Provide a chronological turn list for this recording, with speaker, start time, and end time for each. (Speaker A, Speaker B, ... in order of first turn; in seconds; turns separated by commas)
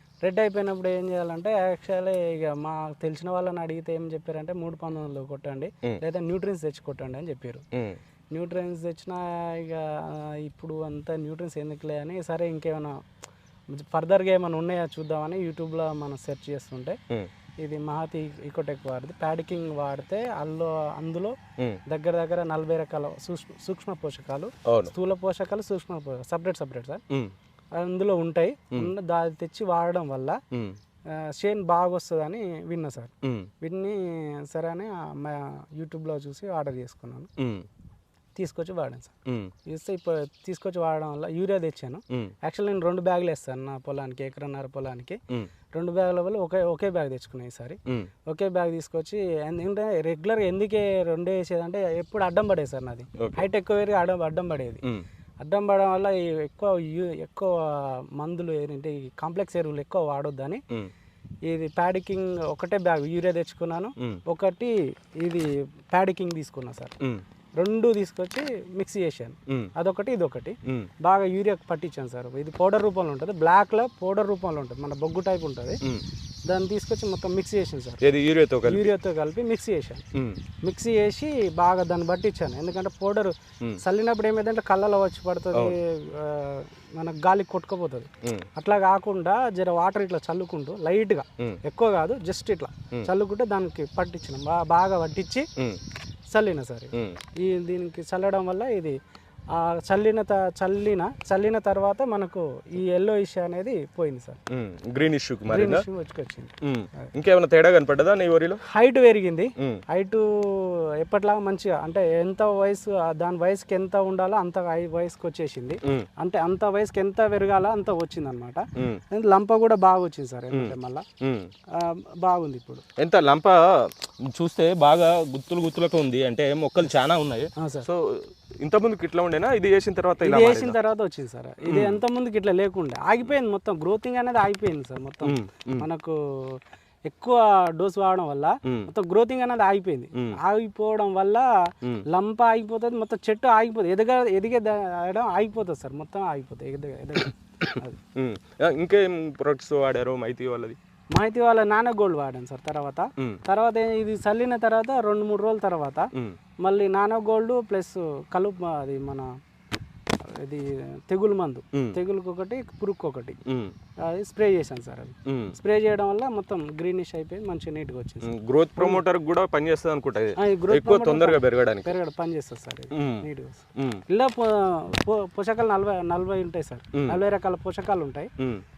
Speaker A: 0.2-7.6, Speaker B: 7.7-8.0, Speaker A: 8.3-13.0, Speaker A: 13.7-17.0, Speaker A: 17.6-21.4, Speaker A: 21.9-27.0, Speaker A: 27.8-30.4, Speaker B: 30.5-30.8, Speaker A: 31.1-37.3, Speaker B: 33.2-33.5, Speaker B: 37.4-37.7, Speaker A: 38.4-39.1, Speaker B: 39.3-39.5, Speaker A: 39.7-45.2, Speaker A: 45.7-54.8, Speaker B: 53.2-53.5, Speaker A: 55.4-60.6, Speaker A: 61.5-67.0, Speaker A: 67.6-75.8, Speaker A: 76.5-78.0, Speaker B: 78.0-78.9, Speaker A: 78.6-80.0, Speaker B: 80.1-80.4, Speaker A: 80.6-95.5, Speaker A: 96.3-99.0, Speaker A: 99.5-104.4, Speaker B: 104.5-105.9, Speaker A: 105.5-107.1, Speaker B: 106.6-108.6, Speaker A: 108.6-121.0, Speaker B: 118.8-119.0, Speaker B: 120.5-121.5, Speaker A: 121.8-122.8, Speaker B: 123.0-130.8, Speaker A: 127.6-127.9, Speaker A: 130.2-148.0, Speaker B: 131.7-132.0, Speaker B: 135.2-135.9, Speaker B: 138.7-138.9, Speaker B: 148.2-150.8, Speaker A: 151.1-156.1, Speaker A: 156.6-159.3, Speaker A: 160.2-163.4, Speaker B: 161.7-162.0, Speaker B: 163.4-163.8, Speaker A: 164.0-169.0, Speaker B: 165.3-165.6, Speaker B: 168.2-172.0, Speaker A: 170.4-178.3, Speaker B: 172.9-174.0, Speaker B: 176.9-177.2, Speaker B: 178.4-178.6